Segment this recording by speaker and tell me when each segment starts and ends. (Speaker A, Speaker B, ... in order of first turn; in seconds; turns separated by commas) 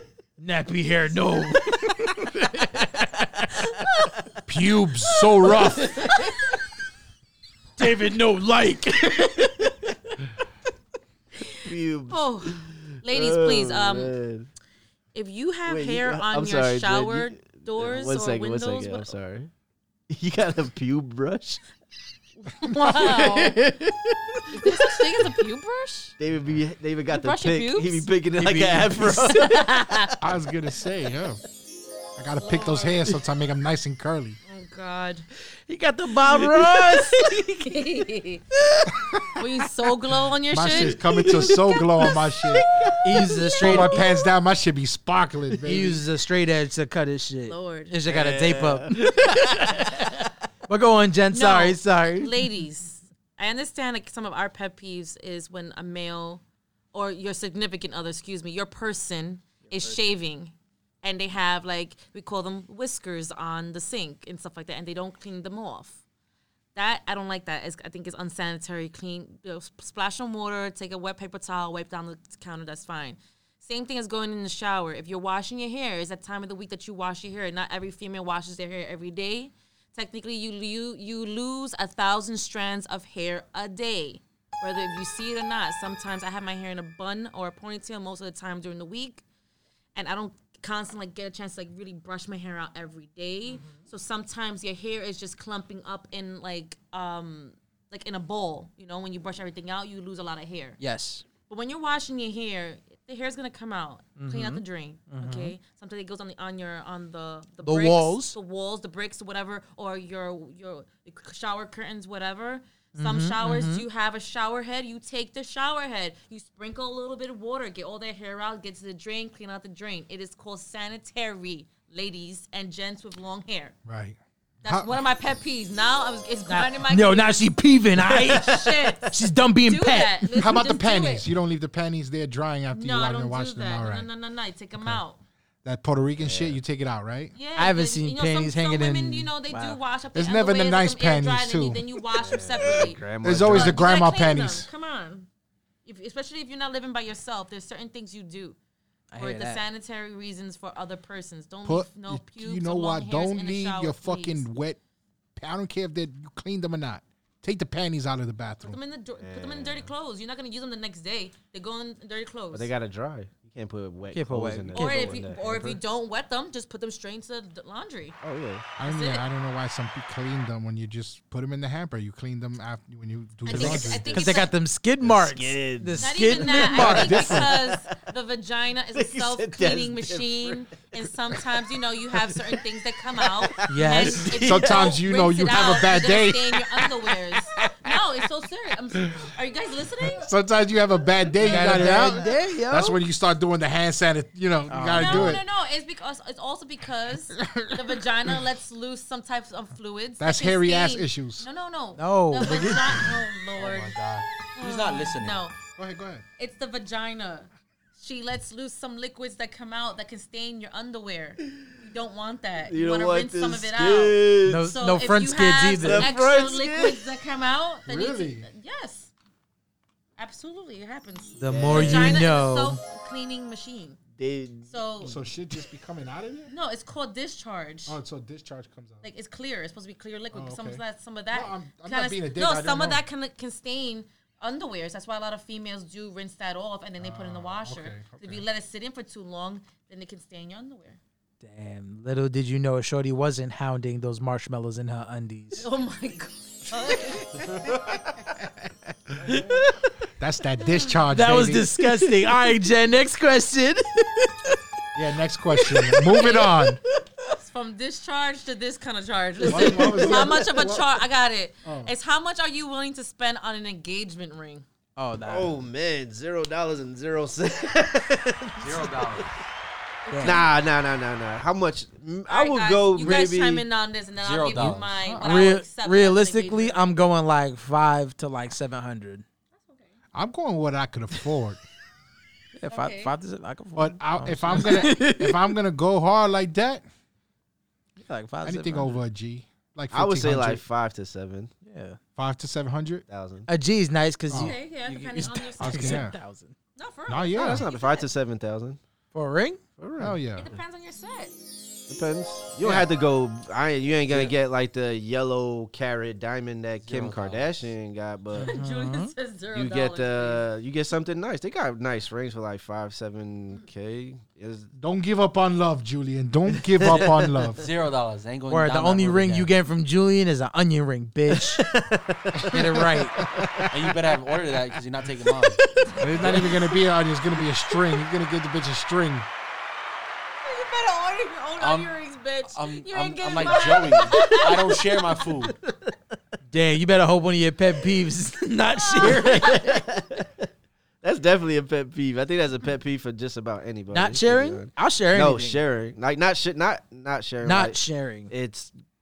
Speaker A: 0.4-3.7, Speaker B: 4.5-6.1, Speaker A: 5.5-6.3, Speaker A: 7.8-9.7, Speaker C: 11.6-14.5, Speaker D: 12.1-14.1, Speaker D: 15.1-19.1, Speaker C: 15.7-19.5, Speaker C: 20.1-21.6, Speaker D: 22.4-23.6, Speaker C: 22.9-24.8, Speaker A: 23.4-23.8, Speaker D: 24.5-26.1, Speaker C: 26.2-30.0, Speaker D: 27.1-28.1, Speaker A: 28.4-29.5, Speaker D: 29.1-30.1, Speaker B: 30.2-31.4, Speaker B: 32.2-34.4, Speaker D: 32.4-33.2, Speaker D: 34.5-35.3, Speaker A: 35.7-37.4, Speaker D: 37.1-38.4, Speaker D: 39.3-41.5, Speaker B: 40.5-42.6, Speaker C: 41.2-41.5, Speaker C: 42.6-42.9, Speaker A: 43.0-44.0, Speaker B: 43.6-46.0, Speaker D: 43.8-44.0, Speaker A: 45.6-52.3, Speaker D: 47.5-47.9, Speaker C: 48.0-49.9, Speaker D: 51.3-56.4, Speaker D: 56.9-66.0, Speaker D: 66.7-89.2, Speaker D: 89.9-100.8, Speaker A: 100.8-101.2, Speaker D: 101.5-123.7, Speaker A: 104.2-105.5, Speaker A: 107.6-108.3, Speaker A: 113.0-113.8, Speaker B: 123.8-124.9, Speaker D: 124.6-131.3, Speaker A: 126.5-130.4, Speaker B: 130.3-134.1, Speaker D: 132.7-135.2, Speaker B: 135.6-137.3, Speaker C: 136.2-136.6, Speaker D: 137.3-145.3, Speaker A: 137.6-139.8, Speaker B: 140.1-141.8, Speaker C: 142.1-143.9, Speaker B: 143.2-144.7, Speaker D: 145.8-148.6, Speaker A: 149.1-149.6, Speaker D: 149.2-154.4, Speaker B: 151.6-154.8, Speaker B: 155.3-158.8, Speaker D: 158.7-162.7, Speaker C: 159.2-159.9, Speaker C: 162.5-165.8, Speaker A: 164.1-165.0, Speaker D: 164.7-168.2, Speaker C: 168.2-168.7, Speaker B: 168.8-174.2, Speaker D: 168.8-169.2, Speaker D: 173.4-174.5, Speaker C: 173.5-174.4, Speaker A: 174.1-177.4, Speaker C: 175.0-177.9, Speaker D: 176.0-190.3, Speaker B: 176.6-177.5, Speaker C: 178.9-180.6, Speaker C: 182.1-182.6, Speaker C: 183.1-185.0, Speaker A: 183.7-184.4, Speaker B: 184.4-186.7, Speaker B: 190.1-195.4, Speaker A: 191.4-193.0, Speaker A: 194.7-195.4, Speaker D: 194.9-203.9, Speaker B: 197.4-198.0, Speaker B: 200.2-201.4, Speaker A: 202.0-203.0, Speaker E: 203.6-205.4, Speaker D: 204.5-205.6, Speaker B: 205.8-206.2, Speaker D: 206.4-219.1, Speaker C: 212.7-214.7, Speaker A: 214.4-216.1, Speaker C: 215.8-217.0, Speaker B: 217.8-218.5, Speaker D: 220.2-224.0, Speaker A: 221.4-222.8, Speaker C: 221.5-222.3, Speaker C: 224.2-224.7, Speaker D: 224.7-225.2, Speaker B: 225.0-226.5, Speaker D: 226.5-228.0, Speaker B: 227.8-229.1, Speaker D: 229.0-241.0, Speaker B: 230.3-233.0, Speaker B: 237.0-238.4, Speaker A: 241.4-245.7, Speaker D: 245.6-247.8, Speaker B: 249.2-249.6, Speaker B: 250.2-251.7, Speaker D: 250.6-251.0, Speaker A: 251.1-254.6, Speaker B: 254.9-256.8, Speaker A: 255.6-256.1, Speaker D: 256.1-256.7, Speaker D: 257.3-264.6, Speaker B: 259.4-260.9, Speaker C: 259.5-260.8, Speaker B: 261.6-261.9, Speaker A: 265.0-265.6, Speaker C: 265.2-269.3, Speaker E: 268.6-269.4, Speaker D: 270.1-270.5, Speaker A: 270.1-270.4, Speaker C: 270.2-273.6, Speaker D: 272.3-276.9, Speaker E: 274.2-275.0, Speaker A: 275.0-279.2, Speaker D: 279.6-279.9, Speaker B: 280.1-281.6, Speaker A: 282.5-285.4, Speaker D: 282.7-283.1, Speaker B: 283.8-286.8, Speaker A: 288.0-289.0, Speaker B: 288.4-290.6, Speaker C: 289.9-291.5, Speaker A: 291.6-292.0, Speaker B: 292.2-293.0, Speaker C: 293.1-293.5, Speaker A: 293.5-296.5, Speaker B: 294.3-294.6, Speaker D: 294.3-296.1, Speaker B: 295.6-296.1, Speaker D: 296.8-298.1, Speaker B: 297.1-297.6, Speaker C: 297.3-298.8, Speaker A: 299.1-299.6, Speaker C: 299.8-300.2, Speaker B: 300.0-300.5, Speaker D: 300.3-301.3, Speaker C: 301.9-308.5, Speaker E: 306.8-307.7, Speaker A: 308.4-309.1, Speaker D: 308.4-310.4, Speaker C: 309.5-314.7, Speaker B: 314.8-317.7, Speaker C: 316.8-317.4, Speaker E: 316.8-319.5, Speaker A: 318.5-321.6, Speaker C: 321.4-324.0, Speaker B: 322.3-323.7, Speaker A: 322.5-323.2, Speaker E: 323.7-325.6, Speaker C: 325.8-326.4, Speaker B: 326.0-329.3, Speaker D: 326.0-326.5, Speaker D: 330.4-335.5, Speaker E: 331.6-331.9, Speaker E: 332.5-335.6, Speaker A: 336.5-339.6, Speaker D: 338.8-339.8, Speaker C: 339.0-340.5, Speaker C: 341.0-348.7, Speaker A: 343.9-345.6, Speaker A: 347.4-348.3